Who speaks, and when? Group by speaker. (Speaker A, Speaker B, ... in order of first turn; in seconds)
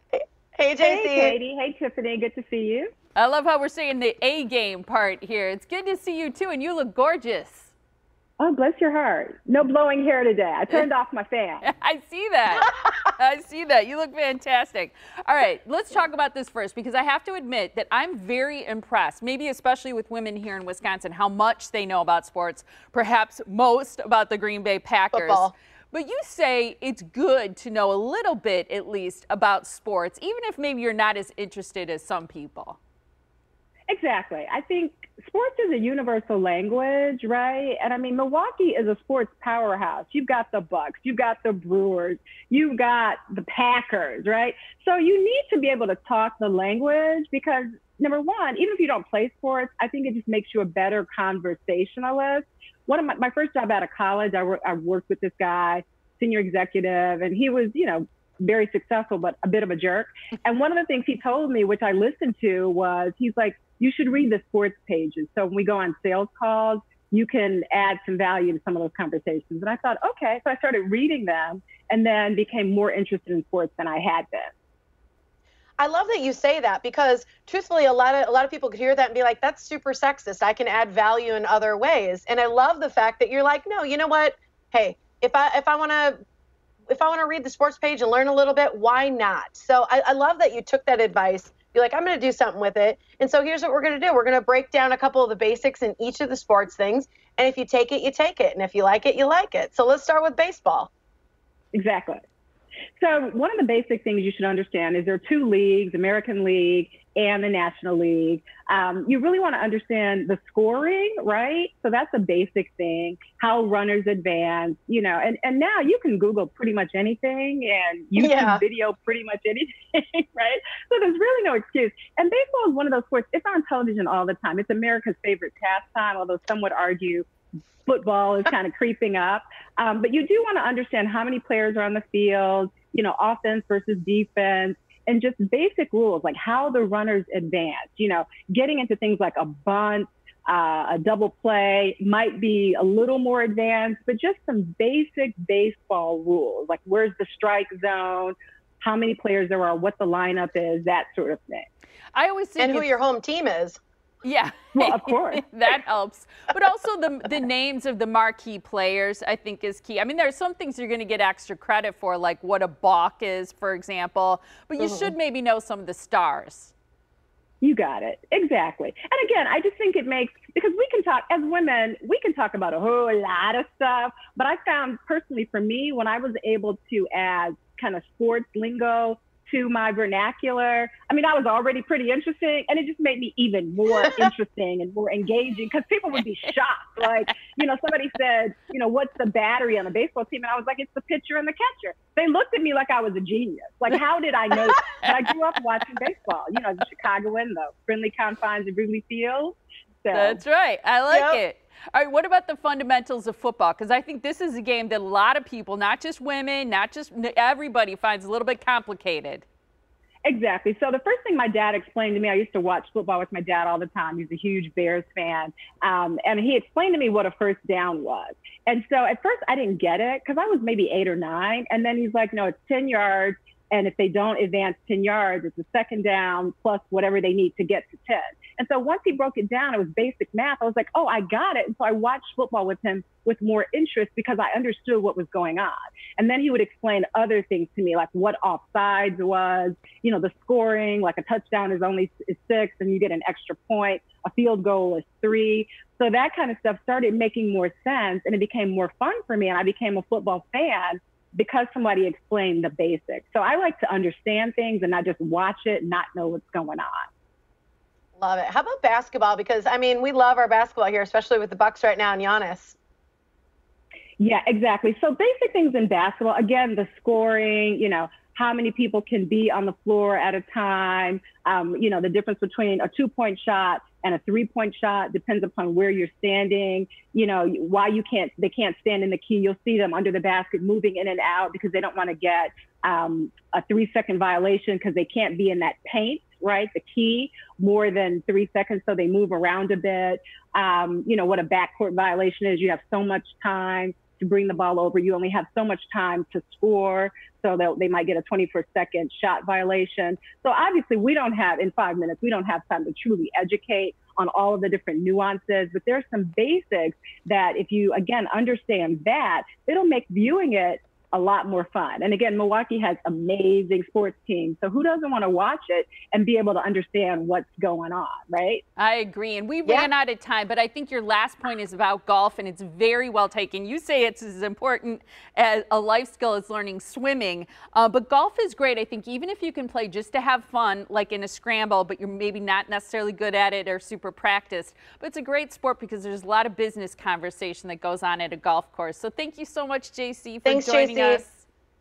Speaker A: 0.1-1.4, 25.1-25.5, 75.8-86.2, 86.9-100.9, 118.2-118.6, 152.6-153.8, 164.8-165.1, 201.1-201.4, 258.1-262.8, 340.4-341.2
Speaker B: 0.8-2.9, 8.4-11.7, 33.9-74.5, 101.7-102.2, 103.0-127.3, 127.8-151.7, 154.7-155.4, 167.6-200.4, 210.2-257.1, 264.2-318.6
Speaker C: 3.1-7.7, 11.6-32.8, 152.1-153.0, 154.2-166.7, 200.1-209.4, 318.8-341.4